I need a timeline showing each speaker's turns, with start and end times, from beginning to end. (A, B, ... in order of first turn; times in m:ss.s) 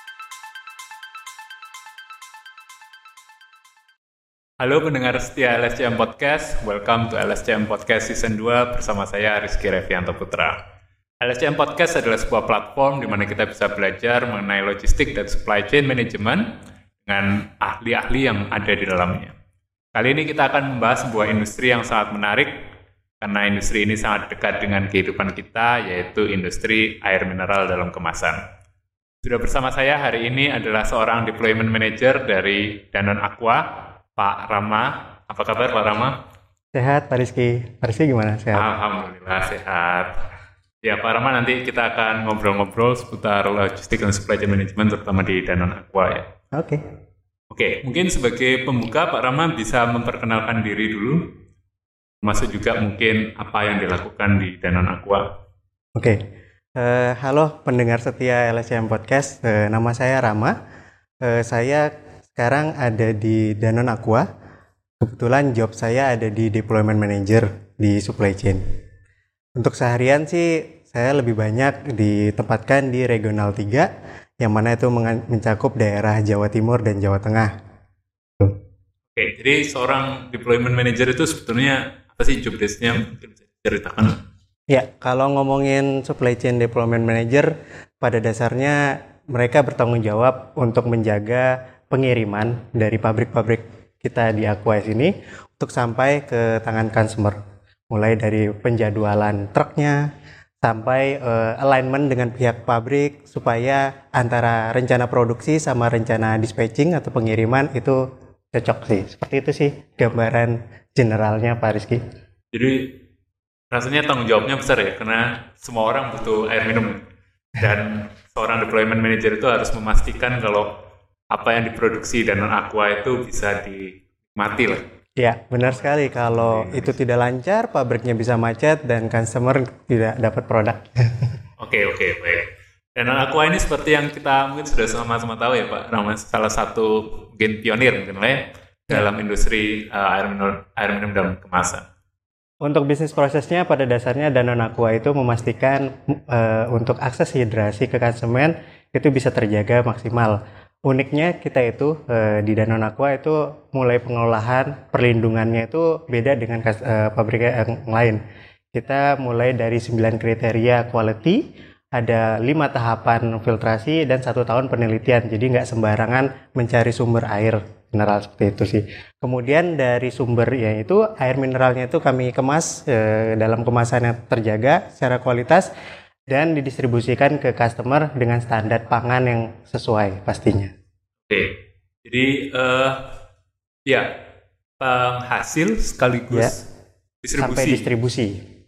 0:04.6-0:10.6 A
0:11.2-0:16.4 A
0:17.0-0:19.3 A
0:19.9-0:22.5 A
0:23.2-0:28.4 A
0:29.2-0:36.1 A
0:36.7-0:38.7 B
0:38.5-0:40.1 A
0:40.8-0:46.2 A
0:46.5-0:46.8 B
0:47.5-0:51.2 A
0:52.2-0:55.2 A
0:56.8-1:00.5 B
1:01.2-1:04.2 B
1:05.0-1:08.6 B
1:09.6-1:13.9 B
1:14.4-1:17.5 B
1:19.1-1:24.2 A
1:24.7-1:37.4 B
1:37.9-1:40.0 B
1:40.6-1:48.0 B
1:48.5-1:52.0 B
1:52.5-1:52.9 A
1:53.7-1:57.0 A
1:57.6-2:00.7 A
2:01.3-2:04.8 A
2:05.2-2:11.3 B
2:05.6-2:07.0 A
2:11.6-2:21.8 A
2:22.6-2:38.2 B
2:38.7-2:41.4 B
2:42.0-2:55.7 B
2:56.3-3:00.7 B
3:01.3-3:01.5 A
3:02.0-3:03.1 A
3:04.8-3:06.6 A
3:07.2-3:07.9 A
3:07.4-3:08.3 B